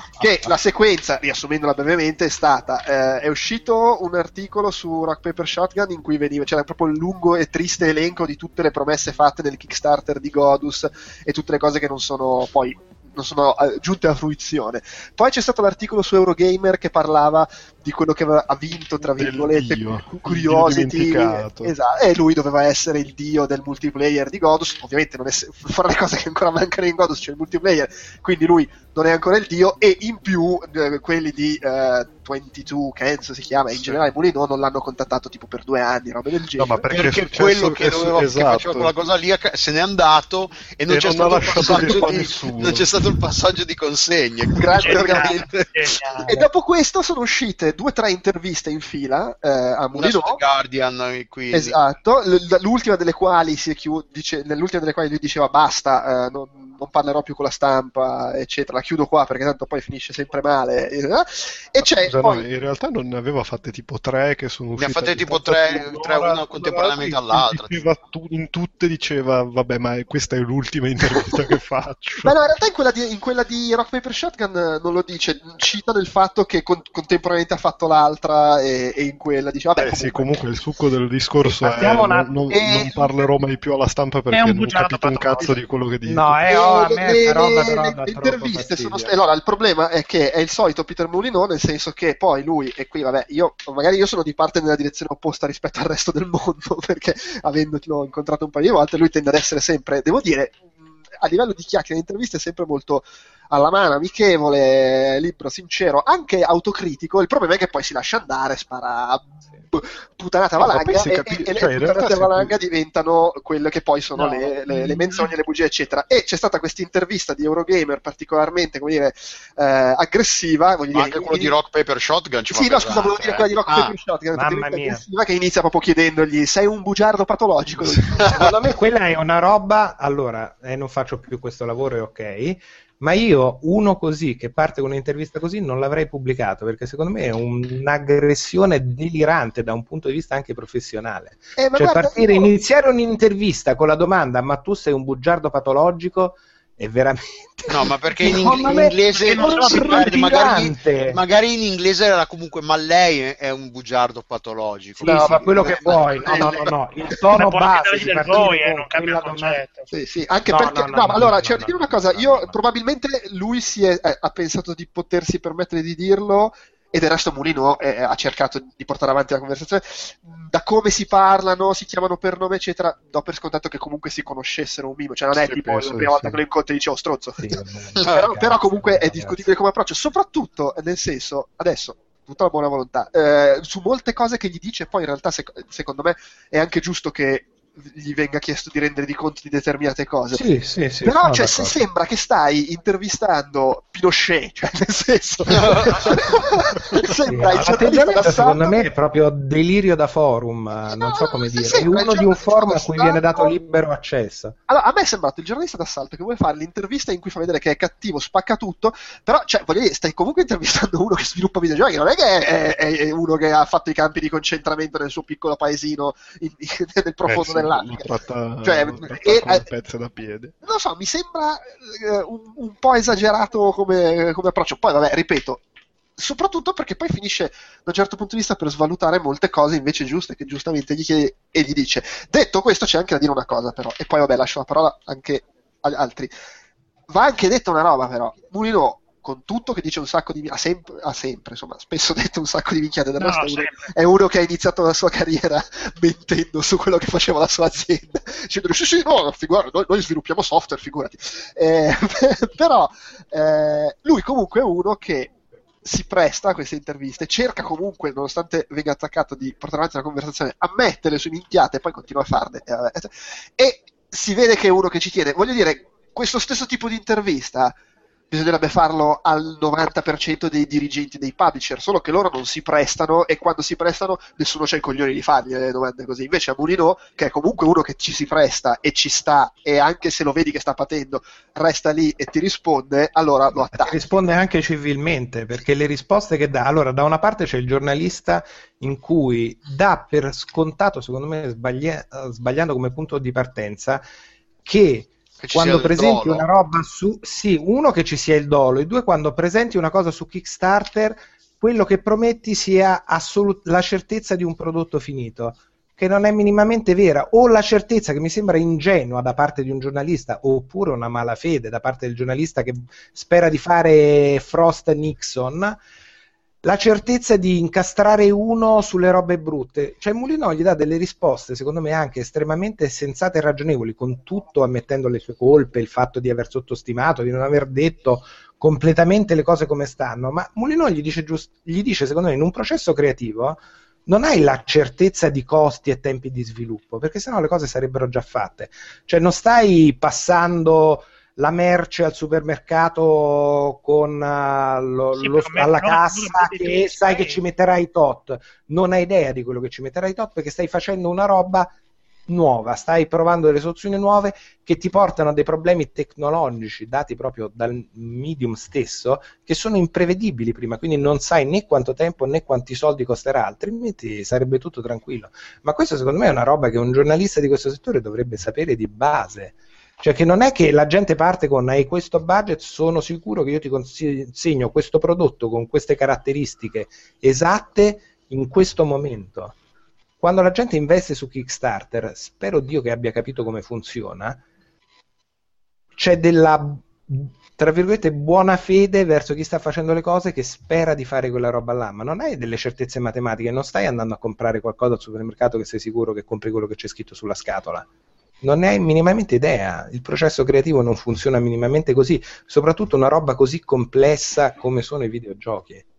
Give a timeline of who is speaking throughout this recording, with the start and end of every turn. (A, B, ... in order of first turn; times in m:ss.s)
0:00.2-0:36.8 A
0:19.1-0:21.7 B
0:33.7-0:34.0 B
0:36.6-0:38.9 B
0:36.9-0:45.9 C
0:40.9-0:43.2 B
0:44.6-0:45.5 A
0:44.7-0:46.3 D
0:46.2-0:50.4 A
0:49.9-0:51.8 C
0:51.5-1:02.4 A
1:02.0-1:12.3 B
1:04.8-1:07.8 C
1:12.2-1:20.2 A
1:19.8-1:26.4 B
1:21.6-1:22.9 E
1:22.5-1:23.0 C
1:24.3-1:25.6 D
1:26.0-1:29.1 E
1:26.4-2:01.6 A
1:50.6-1:52.5 B
2:00.9-2:03.9 C
2:02.5-2:08.5 A
2:04.4-2:05.0 E
2:08.3-2:31.2 E
2:21.6-2:22.5 A
2:27.7-2:35.8 C
2:29.0-2:30.2 D
2:35.0-2:39.6 E
2:35.0-2:36.7 A
2:36.1-2:39.9 D
2:39.9-3:10.4 A
2:40.5-2:42.6 E
2:55.4-2:56.4 B
2:57.4-2:59.5 E
3:10.3-3:11.8 E
3:11.0-3:18.8 A
3:15.5-3:16.1 C
3:17.3-3:24.5 E
3:20.9-3:23.6 A
3:24.7-3:39.7 A
3:37.2-3:40.5 B
3:40.6-3:45.6 A
3:46.2-3:56.3 A
3:57.1-4:27.8 A
4:03.2-4:03.9 D
4:28.3-4:44.0 A
4:43.7-4:54.0 E
4:54.6-5:15.8 E
4:55.4-4:56.5 C
5:16.6-5:51.7 E
5:45.2-5:47.4 D
5:52.3-6:19.5 E
6:20.2-6:24.4 E
6:26.0-6:37.8 E
6:38.4-6:45.8 E